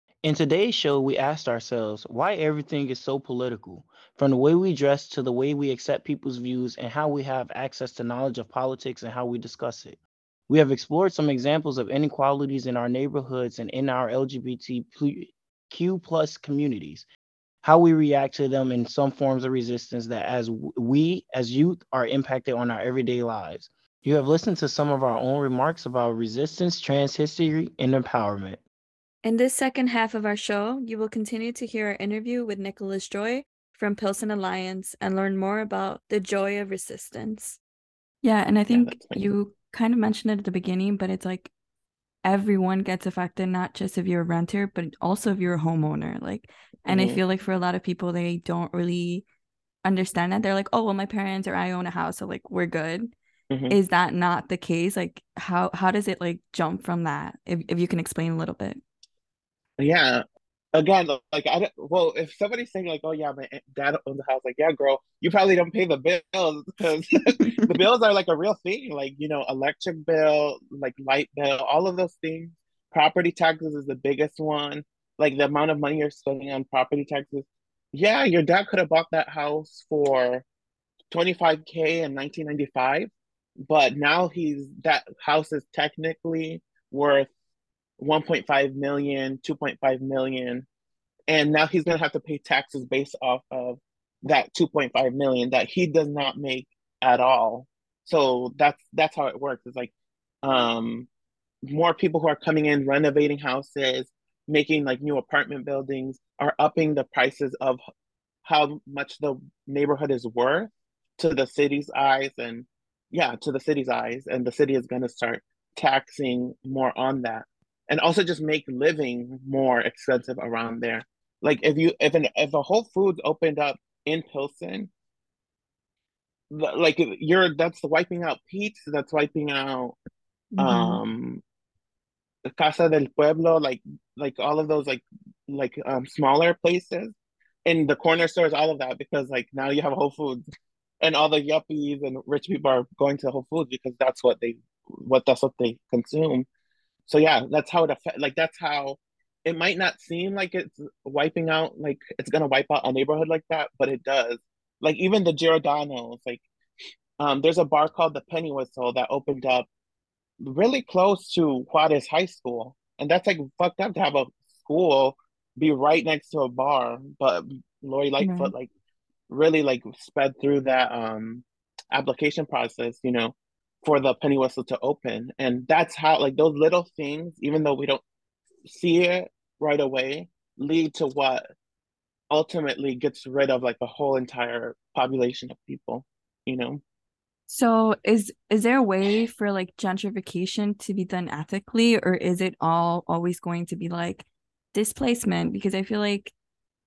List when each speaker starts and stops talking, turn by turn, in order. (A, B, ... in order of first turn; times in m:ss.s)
0:00.2-0:17.0 A
0:17.6-0:28.6 A
0:29.2-0:37.6 B
0:38.2-0:41.5 B
0:38.7-0:39.2 C
0:42.2-0:49.2 B
0:46.9-0:47.2 C
0:49.8-0:53.1 B
0:53.5-0:53.8 C
0:53.7-0:58.8 B
0:59.8-1:20.4 C
1:07.4-1:07.8 B
1:21.1-1:23.1 C
1:23.7-1:27.3 C
1:28.0-1:30.7 C
1:31.3-1:39.9 C
1:40.4-1:41.1 C
1:41.7-1:47.8 C
1:48.4-2:04.9 C
2:06.5-2:10.0 C
2:10.6-2:11.0 B
2:10.6-2:11.4 C
2:12.5-2:17.1 C
2:17.6-2:20.4 C
2:21.0-2:26.5 C
2:27.1-2:36.4 C
2:37.2-2:39.7 C
2:40.4-2:48.7 C
2:48.2-2:48.5 B
2:49.3-2:58.0 C
2:58.7-3:01.4 C
3:02.3-3:06.8 C
3:07.5-3:16.3 B